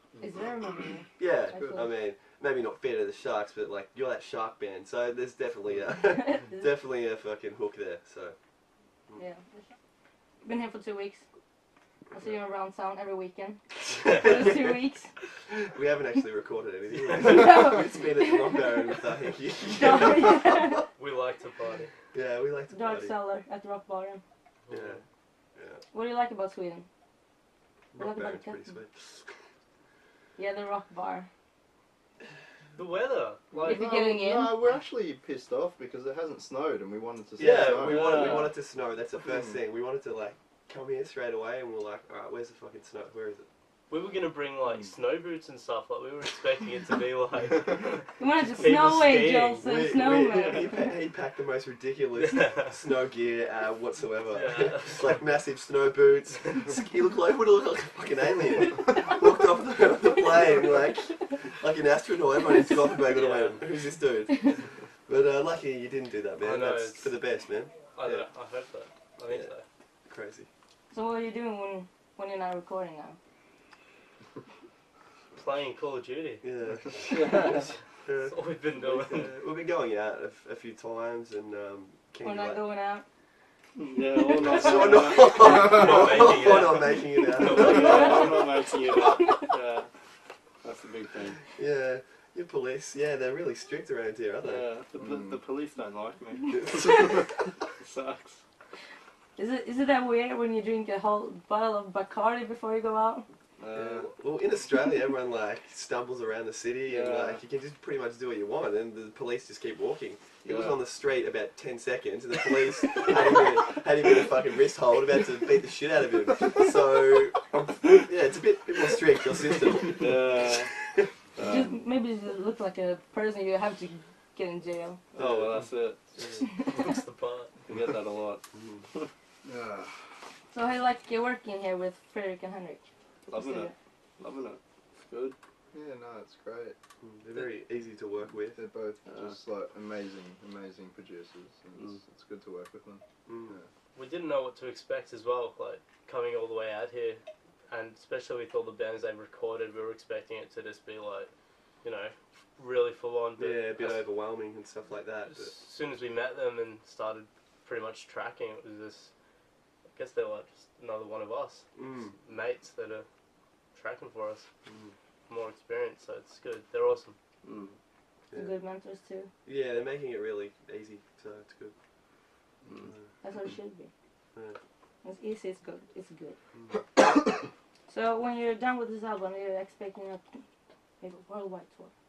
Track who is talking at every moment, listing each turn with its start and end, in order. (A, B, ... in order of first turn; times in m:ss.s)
0:00.1-0:00.4 A
0:00.2-0:01.9 B
0:01.2-0:08.4 C
0:06.2-0:06.6 B
0:09.2-0:09.6 B
0:10.4-0:11.2 B
0:12.1-0:15.1 B
0:14.0-0:14.8 C
0:14.0-0:14.3 D
0:15.5-0:20.8 C
0:17.0-0:17.6 D
0:17.2-0:18.9 B
0:19.7-0:20.8 B
0:21.0-0:21.9 D
0:22.1-0:23.2 C
0:22.7-0:24.2 B
0:24.7-0:25.0 D
0:24.7-0:25.0 C
0:25.6-0:25.8 C
0:25.9-0:26.8 B
0:27.9-0:29.3 C
0:28.0-0:28.6 B
0:30.4-0:31.3 B
0:32.8-0:33.4 D
0:33.5-0:38.5 A
0:33.6-0:34.6 B
0:37.4-0:43.4 C
0:37.8-0:38.5 D
0:39.2-0:39.6 A
0:43.9-0:49.7 D
0:48.2-0:50.9 B
0:49.6-1:08.3 C
0:52.2-0:52.8 D
0:54.3-0:55.2 D
1:03.1-1:03.6 D
1:06.4-1:07.1 D
1:07.9-1:09.6 D
1:09.3-1:09.5 C
1:10.1-1:10.5 C
1:10.9-1:13.2 B
1:15.3-1:16.4 D
1:16.4-1:18.4 C
1:17.1-1:17.6 E
1:17.3-1:17.6 D
1:18.2-1:19.3 D
1:18.9-1:22.6 C
1:22.2-1:23.0 B
1:24.2-1:25.0 B
1:24.3-1:25.6 E
1:24.3-1:28.6 C
1:25.3-1:28.5 D
1:27.6-1:29.6 E
1:27.6-1:29.5 B
1:30.6-1:31.3 E
1:31.5-1:35.2 C
1:34.4-1:35.6 E
1:35.0-1:35.4 A
1:36.4-1:37.4 C
1:39.4-1:43.3 B
1:43.6-1:44.1 E
1:43.7-2:01.6 C
1:46.8-1:47.4 E
1:50.4-1:50.8 E
1:59.9-2:00.7 E
2:01.4-2:05.0 B
2:05.2-2:06.4 C
2:05.3-2:05.6 E
2:06.1-2:07.6 D
2:06.4-2:07.0 B
2:08.5-2:08.9 C
2:09.4-2:09.9 A
2:10.5-2:12.8 B
2:13.3-2:14.4 E
2:13.3-2:13.7 B
2:15.7-2:16.8 A
2:17.0-2:18.6 C
2:18.5-2:23.7 A
2:23.2-2:23.6 C
2:23.9-2:31.3 D
2:31.8-2:34.1 D
2:33.4-2:35.5 C
2:35.3-2:39.1 D
2:39.9-2:41.7 D
2:41.8-2:42.2 C
2:42.2-2:43.0 D
2:43.7-2:44.5 D
2:44.7-2:44.9 C
2:45.3-2:47.2 D
2:48.3-2:49.3 B
2:49.4-2:51.7 C
2:52.7-2:53.0 C
2:53.2-2:53.9 B
2:55.0-2:56.4 B
2:56.5-2:56.8 C
2:57.9-3:00.2 B
3:01.0-3:01.9 B